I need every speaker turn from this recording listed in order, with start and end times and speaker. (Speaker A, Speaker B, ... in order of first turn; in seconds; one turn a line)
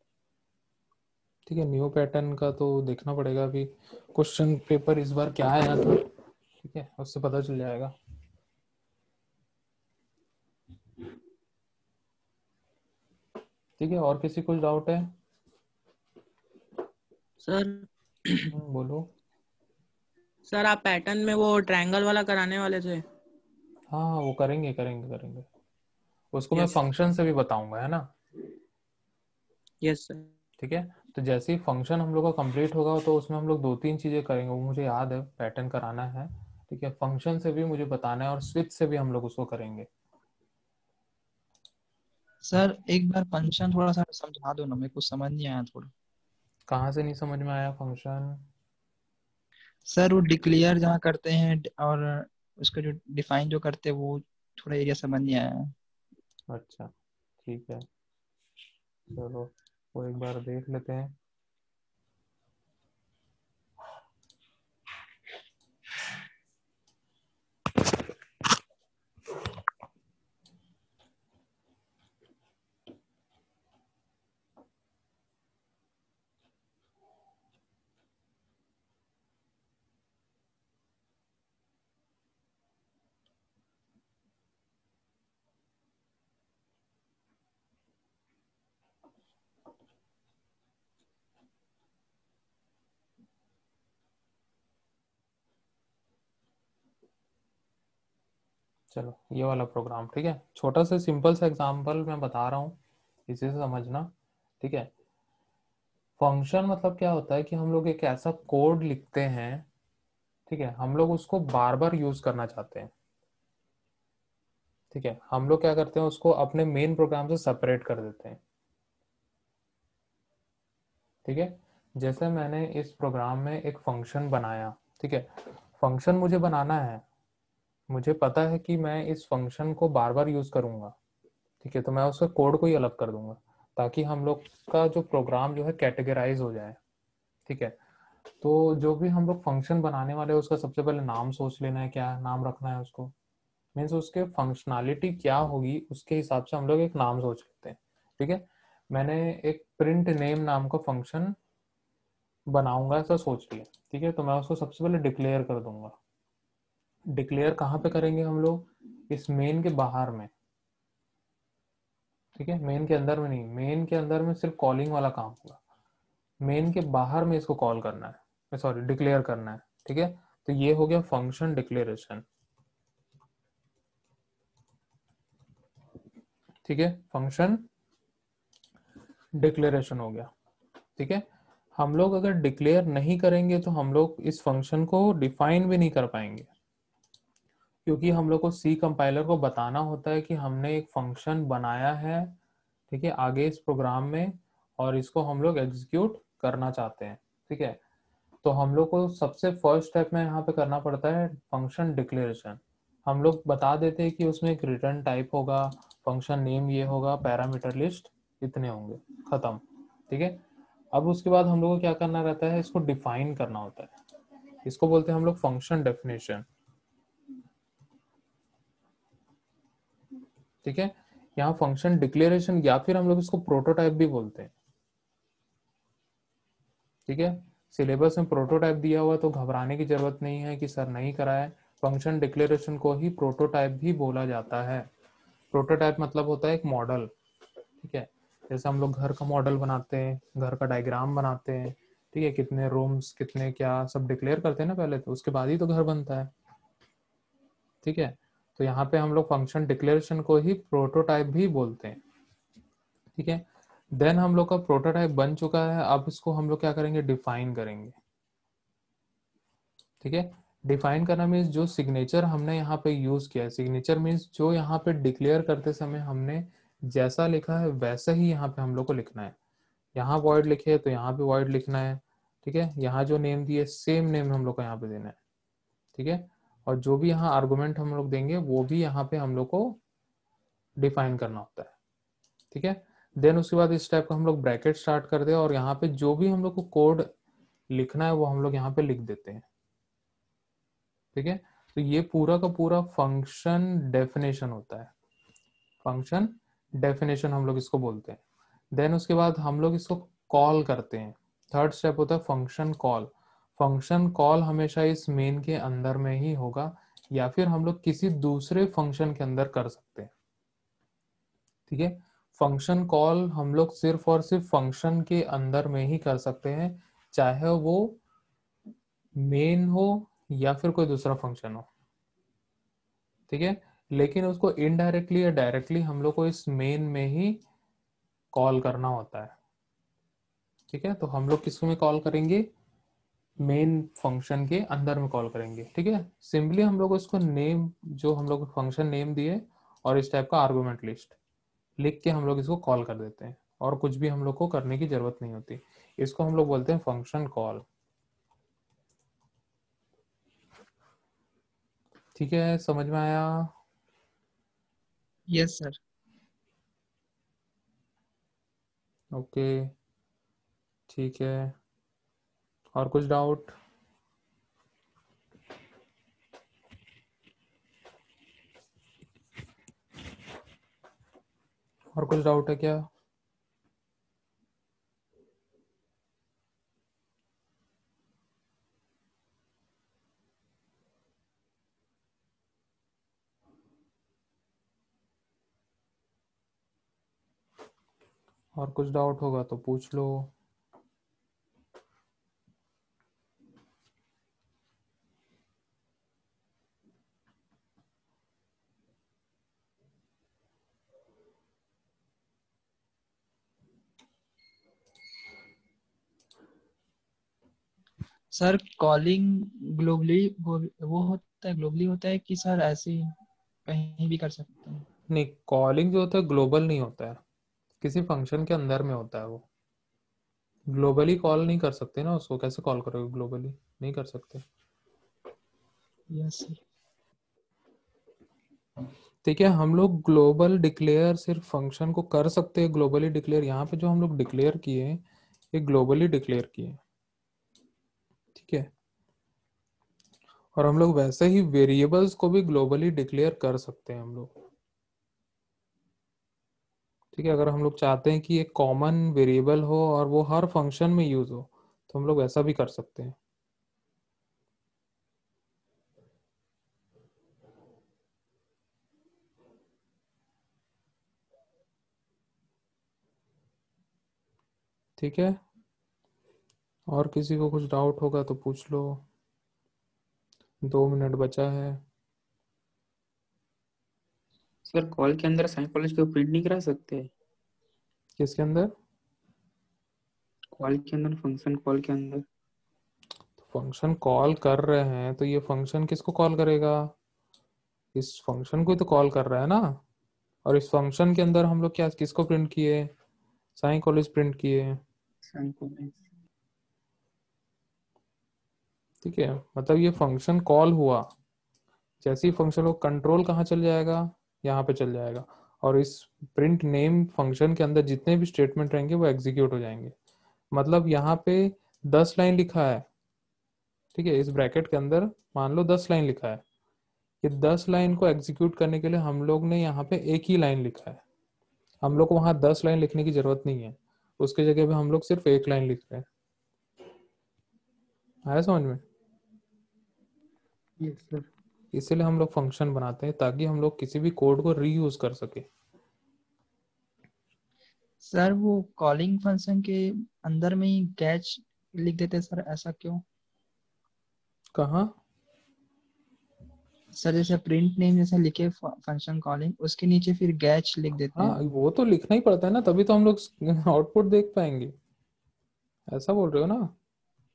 Speaker A: 1.4-6.0
Speaker A: 6.6-7.9
Speaker A: 13.8-15.1
Speaker B: 17.4-17.8
Speaker A: 18.5-19.1
Speaker B: 20.5-23.0
Speaker A: 23.9-25.5
Speaker A: 26.3-28.1
Speaker B: 29.8-30.2
Speaker A: 30.6-39.9
Speaker C: 42.4-45.9
Speaker A: 46.7-48.4
Speaker C: 49.9-55.7
Speaker A: 56.5-56.9
Speaker A: 57.4-57.9
Speaker A: 59.1-61.1
Speaker A: 98.9-104.9
Speaker A: 106.2-109.7
Speaker A: 110.5-112.9
Speaker A: 114.9-118.4
Speaker A: 121.2-125.3
Speaker A: 125.8-127.0
Speaker A: 127.9-130.9
Speaker A: 131.6-136.8
Speaker A: 137.5-137.8
Speaker A: 138.4-143.1
Speaker A: 143.7-151.3
Speaker A: 152.5-155.9
Speaker A: 157.1-160.3
Speaker A: 162.3-165.6
Speaker A: 166.4-172.2
Speaker A: 176.6-177.6
Speaker A: 179.4-180.3
Speaker A: 181.0-181.2
Speaker A: 181.8-186.5
Speaker A: 187.8-192.3
Speaker A: 192.9-197.8
Speaker A: 198.4-210.4
Speaker A: 210.9-213.9
Speaker A: 214.6-216.4
Speaker A: 220.6-224.5
Speaker A: 227.1-234.9
Speaker A: 235.5-237.1
Speaker A: 237.8-246.3
Speaker A: 247.8-252.0
Speaker A: 253.1-257.9
Speaker A: 260.0-269.3
Speaker A: 269.9-275.1
Speaker A: 275.9-279.8
Speaker A: 280.8-281.7
Speaker A: 282.5-287.1
Speaker A: 287.7-289.4
Speaker A: 291.1-294.9
Speaker A: 295.8-298.2
Speaker A: 298.7-310.1
Speaker A: 311.7-318.0
Speaker A: 319.2-321.7
Speaker A: 323.3-327.4
Speaker A: 328.3-329.3
Speaker A: 330.7-332.5
Speaker A: 333.4-341.1
Speaker A: 341.8-347.6
Speaker A: 352.1-353.5
Speaker C: 355.3-355.8
Speaker A: 359.1-359.7
Speaker A: 360.9-361.5
Speaker A: 362.7-363.5
Speaker A: 371.9-372.9
Speaker A: 388.5-390.3
Speaker C: 408.3-413.1
Speaker C: 413.7-414.8
Speaker A: 415.1-417.2
Speaker A: 417.8-419.4
Speaker A: 420.7-424.4
Speaker C: 426.1-426.6
Speaker A: 429.2-435.0
Speaker A: 435.5-436.8
Speaker A: 438.3-438.7
Speaker A: 440.5-444.3
Speaker A: 447.1-453.1
Speaker A: 465.0-465.4
Speaker A: 466.9-469.0
Speaker A: 470.7-471.8
Speaker D: 474.7-477.1
Speaker A: 478.2-478.7
Speaker D: 480.6-482.2
Speaker A: 483.4-486.9
Speaker A: 487.9-489.6
Speaker A: 490.4-492.9
Speaker A: 493.6-494.8
Speaker D: 495.3-496.0
Speaker A: 499.0-501.1
Speaker A: 502.0-509.9
Speaker A: 510.5-512.8
Speaker A: 513.9-516.4
Speaker A: 517.2-521.0
Speaker A: 521.8-526.0
Speaker A: 528.3-528.8
Speaker D: 530.8-531.3
Speaker A: 531.7-535.5
Speaker C: 538.0-543.0
Speaker A: 544.5-544.9
Speaker C: 547.0-551.4
Speaker A: 551.1-554.7
Speaker A: 555.9-556.7